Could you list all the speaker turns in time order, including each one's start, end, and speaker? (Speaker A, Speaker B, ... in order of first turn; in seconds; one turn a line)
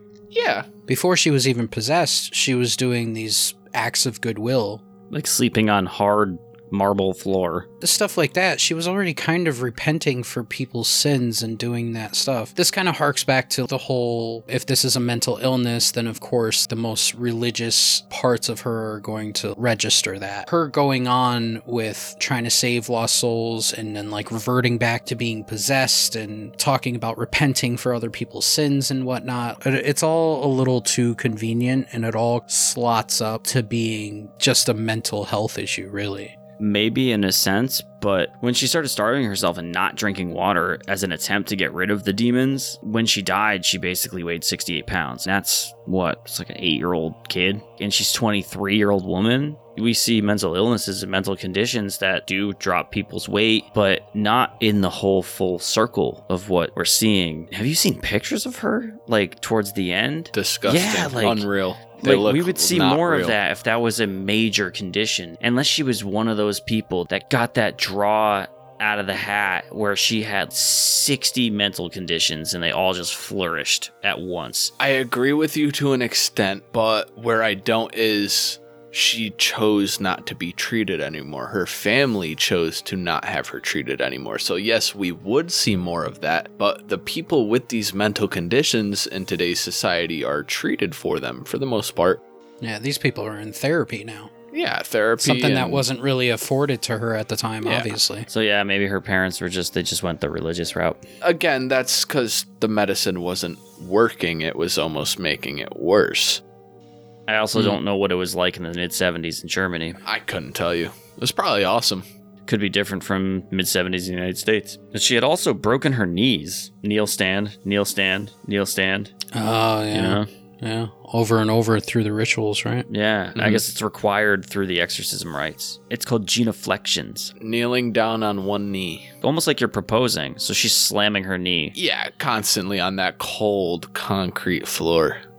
Speaker A: 0.3-0.7
Speaker B: 0.9-4.8
Speaker C: 5.1-7.7
Speaker B: 7.8-36.3
Speaker C: 36.6-61.5
Speaker A: 60.4-63.4
Speaker C: 62.0-74.7
Speaker A: 74.8-92.2
Speaker B: 92.6-94.3
Speaker A: 94.5-95.8
Speaker B: 95.2-98.3
Speaker A: 97.6-97.9
Speaker C: 98.3-101.0
Speaker A: 101.2-106.4
Speaker C: 107.3-110.0
Speaker A: 110.0-112.0
Speaker C: 112.5-119.1
Speaker B: 119.3-122.9
Speaker C: 119.9-120.3
Speaker C: 122.9-127.3
Speaker A: 127.4-129.1
Speaker C: 129.2-131.8
Speaker A: 131.8-135.2